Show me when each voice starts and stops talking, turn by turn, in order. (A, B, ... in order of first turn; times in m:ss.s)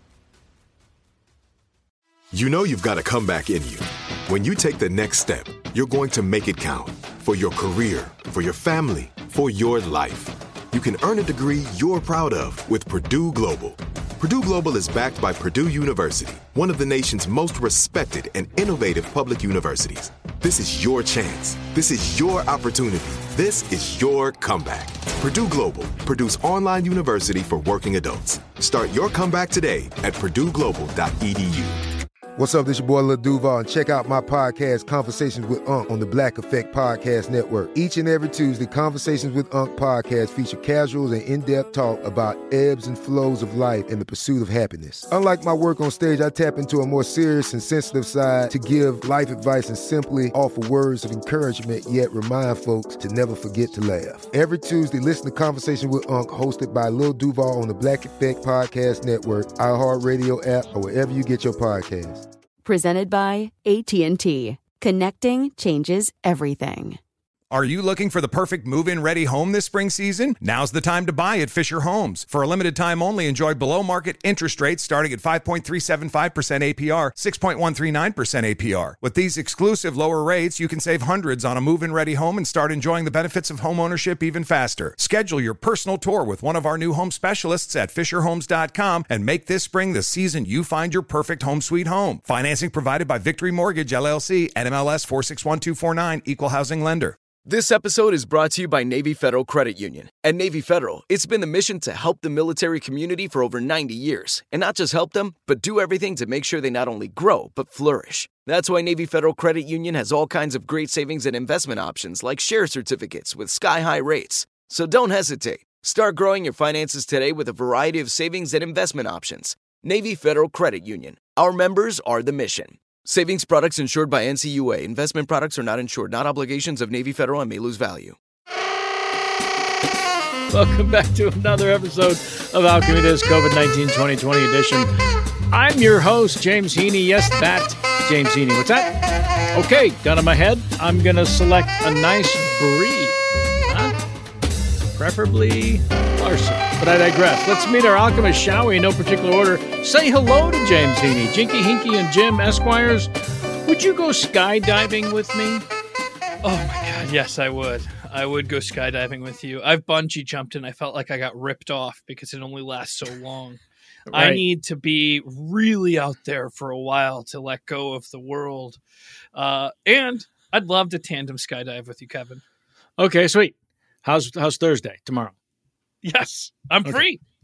0:02.3-0:31.8 A
0:32.4-1:02.2 B
1:02.6-1:07.0 C
1:07.5-1:37.2 D
1:37.4-2:08.2 E
2:10.5-2:14.9 F
2:15.5-2:19.0 F
2:19.5-2:23.9 F
2:25.0-2:33.1 F
2:33.6-2:35.6 F
2:36.4-2:43.6 G
2:44.1-2:44.4 F
2:44.1-2:48.8 G
2:49.3-2:52.4 G
2:53.0-2:55.3 F
2:56.0-2:57.2 G